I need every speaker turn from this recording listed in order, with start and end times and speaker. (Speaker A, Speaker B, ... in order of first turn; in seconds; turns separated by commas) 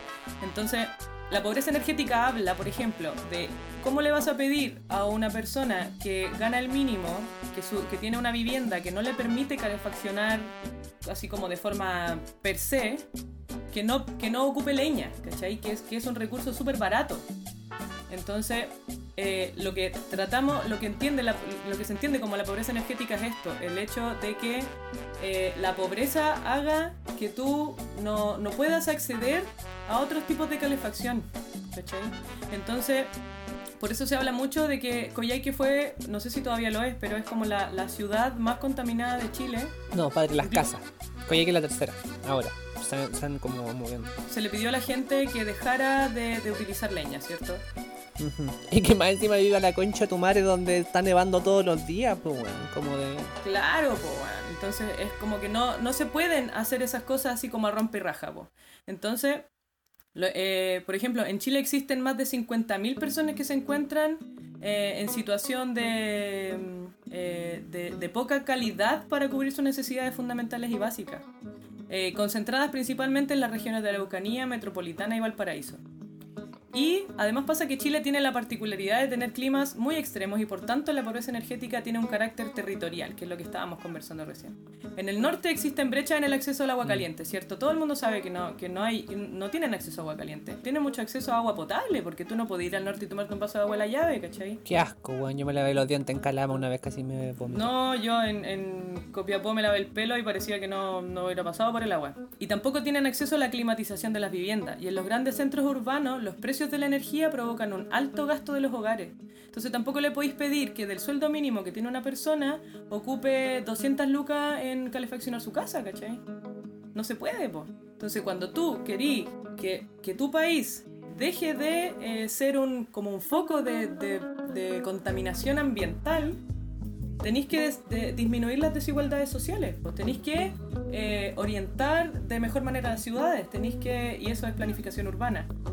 Speaker A: 0.4-13.1, Speaker A: 13.7-17.3, Speaker A: 18.1-33.1, Speaker A: 33.8-39.8, Speaker B: 39.9-44.1, Speaker A: 40.4-40.7, Speaker A: 44.3-47.6, Speaker B: 48.2-53.3, Speaker A: 53.4-59.5, Speaker A: 60.1-71.2, Speaker A: 71.9-75.8, Speaker A: 76.7-94.6, Speaker B: 94.6-97.7, Speaker A: 97.5-116.2, Speaker A: 116.9-126.4, Speaker A: 127.2-135.5